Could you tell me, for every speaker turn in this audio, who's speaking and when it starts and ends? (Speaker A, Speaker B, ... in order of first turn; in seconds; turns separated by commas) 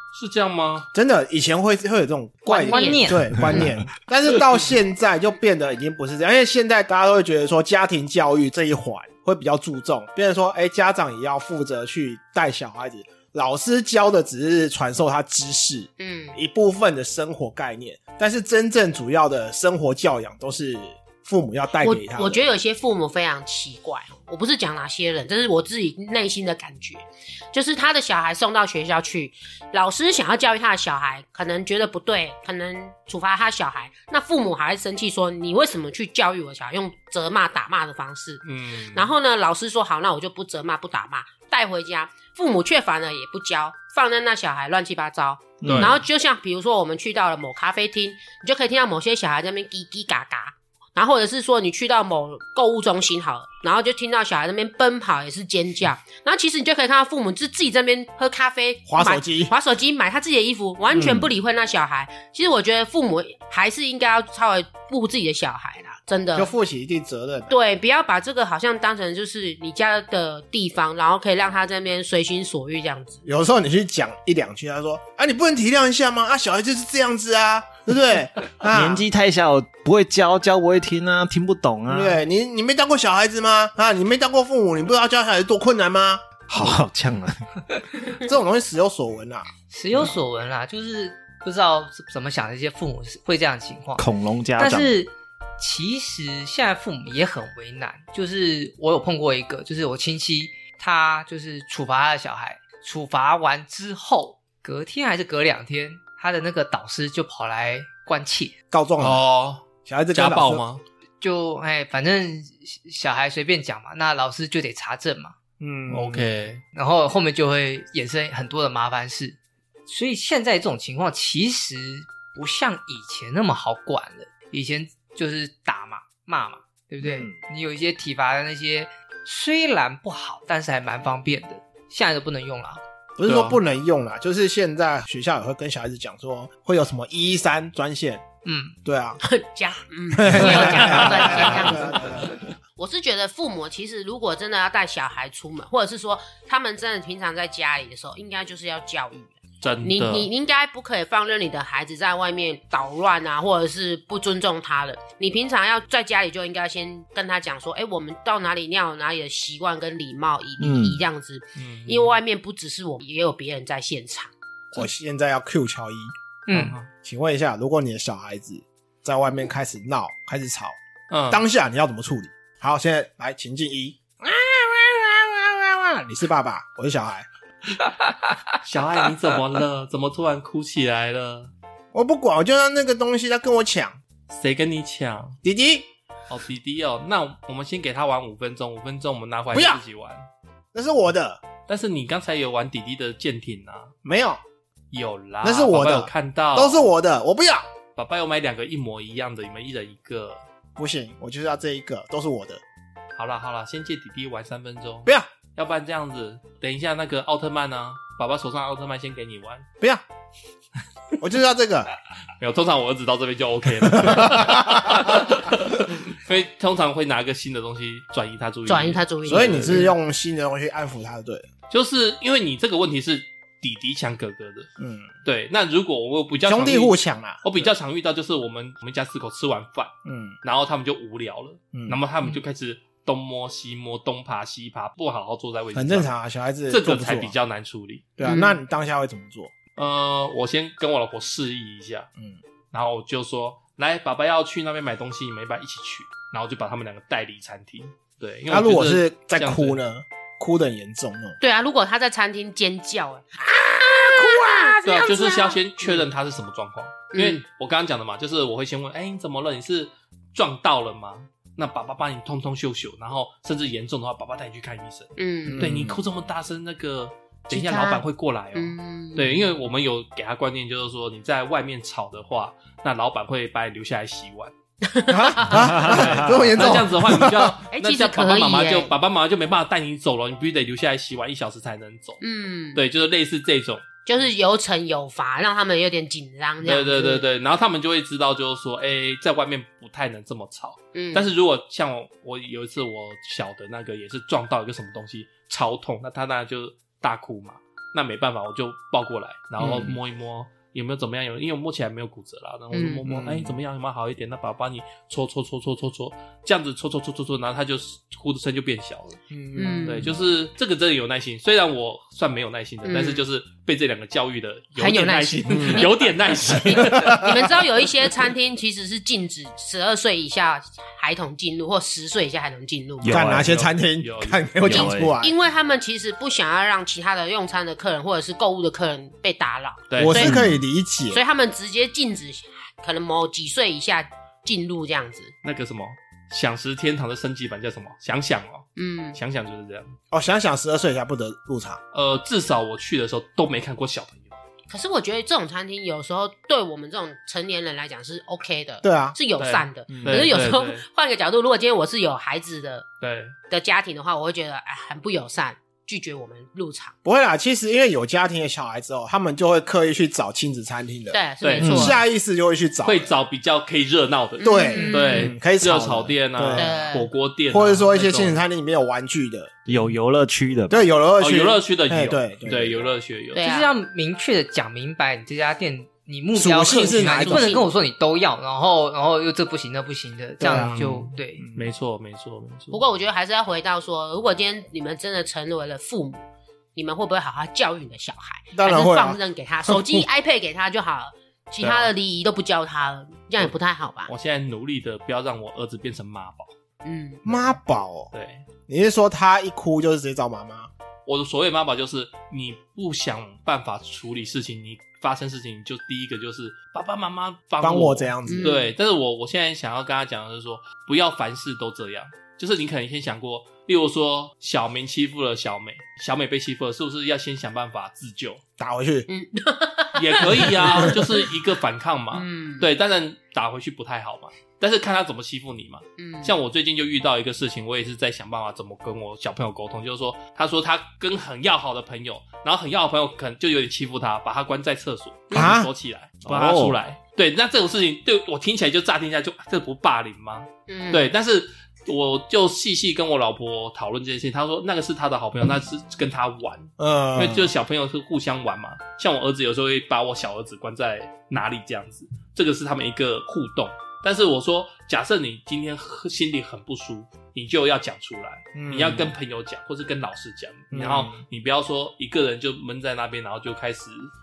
Speaker A: 0.1-0.9, Speaker B: 0.9-22.4, Speaker C: 2.5-3.7, Speaker D: 2.6-3.4, Speaker C: 16.0-16.4, Speaker C: 21.8-66.5, Speaker A: 38.4-39.1, Speaker E: 45.6-46.0, Speaker A: 45.6-46.0, Speaker B: 58.9-59.5, Speaker B: 60.9-61.3, Speaker B: 66.3-67.6, Speaker C: 67.5-73.2, Speaker B: 73.2-79.0, Speaker E: 78.7-82.2, Speaker B: 81.9-86.3, Speaker E: 86.5-87.5, Speaker B: 88.2-89.5, Speaker D: 89.7-94.1, Speaker E: 94.0-95.0, Speaker D: 94.6-108.5, Speaker B: 108.7-109.2, Speaker A: 109.0-110.8, Speaker B: 109.8-110.6, Speaker D: 111.2-115.3, Speaker B: 115.6-116.3, Speaker A: 115.9-116.6, Speaker D: 116.7-132.8, Speaker E: 127.0-127.4, Speaker B: 133.2-138.2, Speaker A: 133.2-133.6, Speaker D: 138.4-138.8, Speaker B: 138.8-139.2, Speaker C: 139.2-164.3, Speaker B: 140.1-142.4, Speaker A: 149.6-150.3, Speaker E: 160.6-161.0, Speaker A: 161.6-162.2, Speaker B: 164.7-166.1, Speaker D: 166.5-166.8, Speaker A: 166.5-166.9, Speaker B: 167.0-170.8, Speaker A: 171.1-171.4, Speaker B: 171.3-177.3, Speaker A: 178.5-181.5, Speaker B: 181.9-184.0, Speaker A: 184.3-185.4, Speaker B: 185.4-185.9, Speaker A: 186.3-190.3, Speaker B: 189.5-189.8, Speaker B: 190.7-191.4, Speaker A: 191.7-193.9, Speaker B: 194.0-194.4, Speaker A: 194.9-196.8, Speaker B: 195.4-197.7, Speaker A: 198.0-200.4, Speaker B: 200.8-202.6, Speaker A: 203.2-209.7, Speaker B: 211.2-211.9, Speaker A: 212.4-219.9, Speaker B: 213.9-215.0, Speaker C: 218.7-219.9, Speaker B: 219.2-221.5, Speaker A: 221.7-224.7, Speaker B: 224.8-225.1, Speaker A: 225.2-229.9, Speaker B: 226.4-227.4, Speaker B: 230.1-230.4, Speaker A: 230.4-236.1, Speaker B: 231.7-232.0, Speaker B: 235.7-237.3, Speaker A: 236.7-238.2, Speaker B: 238.2-239.5, Speaker C: 238.2-238.6, Speaker A: 239.8-242.1, Speaker A: 242.7-249.8, Speaker B: 248.5-251.4, Speaker C: 251.4-256.0, Speaker B: 253.6-254.8, Speaker A: 254.8-274.5, Speaker C: 257.1-257.4, Speaker C: 265.2-265.7, Speaker B: 265.5-266.0, Speaker C: 267.5-268.0, Speaker C: 268.6-269.4, Speaker C: 274.9-276.0, Speaker B: 275.1-277.6, Speaker E: 275.7-276.5, Speaker A: 275.8-282.2, Speaker C: 277.7-278.9, Speaker C: 282.2-282.8, Speaker A: 282.8-283.8, Speaker C: 284.1-287.2, Speaker A: 286.6-317.6, Speaker C: 290.9-291.3, Speaker B: 299.6-299.9, Speaker C: 302.7-303.0, Speaker B: 303.1-303.6, Speaker B: 309.3-310.2, Speaker C: 309.6-310.1, Speaker C: 312.9-313.2, Speaker C: 314.8-323.3, Speaker B: 315.5-315.9, Speaker B: 316.7-317.5, Speaker E: 323.0-323.6, Speaker B: 323.1-325.4, Speaker A: 323.4-324.5, Speaker E: 324.6-325.2, Speaker C: 324.7-330.4, Speaker A: 329.9-330.3, Speaker B: 330.0-331.2, Speaker C: 331.1-335.3, Speaker A: 335.4-340.0, Speaker C: 338.8-339.2, Speaker B: 340.1-341.8, Speaker A: 341.9-344.4, Speaker C: 344.7-352.9, Speaker B: 348.8-349.2, Speaker A: 349.4-350.9, Speaker B: 349.9-350.3, Speaker A: 353.0-353.4, Speaker C: 353.5-356.9, Speaker B: 357.1-363.1, Speaker C: 361.1-362.0, Speaker A: 361.4-361.8, Speaker E: 361.6-362.0, Speaker A: 362.9-368.4, Speaker C: 364.4-365.3, Speaker B: 364.4-366.7, Speaker D: 364.8-365.2, Speaker C: 366.6-367.1, Speaker B: 367.5-369.5, Speaker E: 369.7-370.9, Speaker B: 370.7-372.9, Speaker A: 371.2-373.4, Speaker C: 373.3-373.7, Speaker D: 373.4-381.4, Speaker B: 376.4-377.6, Speaker C: 377.0-377.7, Speaker B: 380.4-380.9, Speaker A: 380.5-382.8, Speaker B: 381.4-381.7, Speaker C: 382.7-386.2, Speaker C: 386.8-394.1, Speaker B: 388.5-390.1, Speaker A: 391.6-391.9, Speaker A: 394.1-396.5, Speaker C: 396.8-397.6, Speaker B: 397.3-398.1, Speaker A: 398.1-398.4, Speaker B: 398.7-400.7, Speaker A: 401.1-418.4, Speaker B: 407.6-408.6, Speaker C: 408.3-408.7, Speaker B: 418.6-419.1, Speaker C: 419.1-421.2, Speaker A: 419.9-464.1, Speaker B: 420.6-420.9, Speaker C: 422.1-422.7, Speaker C: 426.0-426.3, Speaker B: 435.3-435.7, Speaker E: 436.2-436.8, Speaker C: 440.7-441.1, Speaker B: 446.8-447.5, Speaker B: 458.6-459.1, Speaker B: 460.7-461.2